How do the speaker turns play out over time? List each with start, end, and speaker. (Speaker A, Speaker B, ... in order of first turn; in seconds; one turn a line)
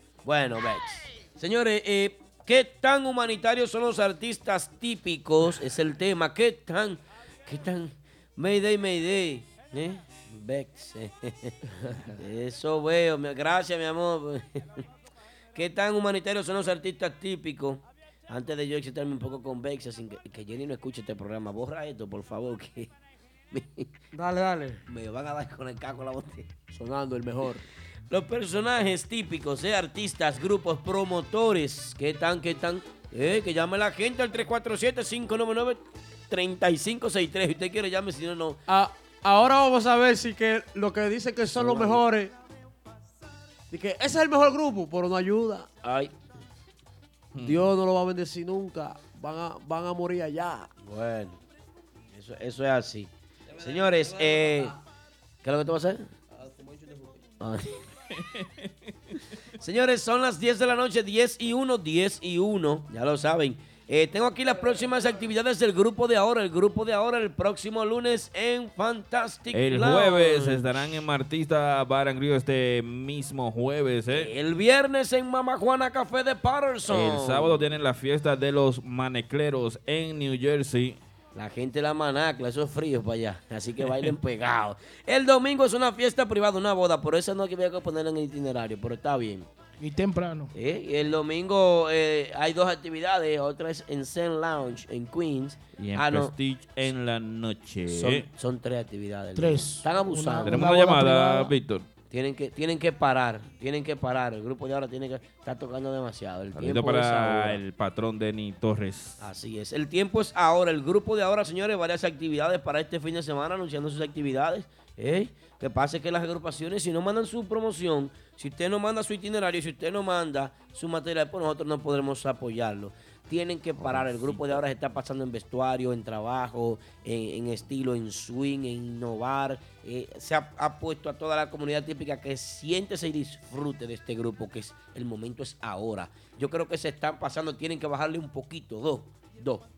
Speaker A: 0.2-14.9
Speaker A: 15.5-22.9
Speaker A: 23.5-23.9
Speaker B: 24.1-24.8
Speaker A: 24.9-26.5
Speaker B: 26.7-27.6
Speaker A: 28.1-38.6
Speaker B: 38.7-42.3
Speaker A: 41.5-42.0
Speaker B: 43.7-45.7
Speaker A: 45.8-46.1
Speaker C: 47.3-47.7
Speaker B: 47.4-50.7
Speaker A: 50.8-51.4
Speaker A: 52.1-54.7
Speaker B: 53.5-54.7
Speaker A: 55.4-56.1
Speaker B: 56.3-57.2
Speaker A: 57.4-57.8
Speaker C: 58.1-58.7
Speaker A: 59.6-71.0
Speaker C: 69.5-74.3
Speaker A: 74.1-77.6
Speaker C: 76.9-81.0
Speaker A: 81.3-89.5
Speaker D: 89.8-90.5
Speaker A: 90.5-96.3
Speaker C: 95.8-98.3
Speaker A: 97.9-100.6
Speaker D: 99.3-101.5
Speaker C: 100.5-101.8
Speaker A: 102.1-107.6
Speaker C: 106.5-109.2
Speaker A: 109.2-139.6
Speaker C: 123.8-124.6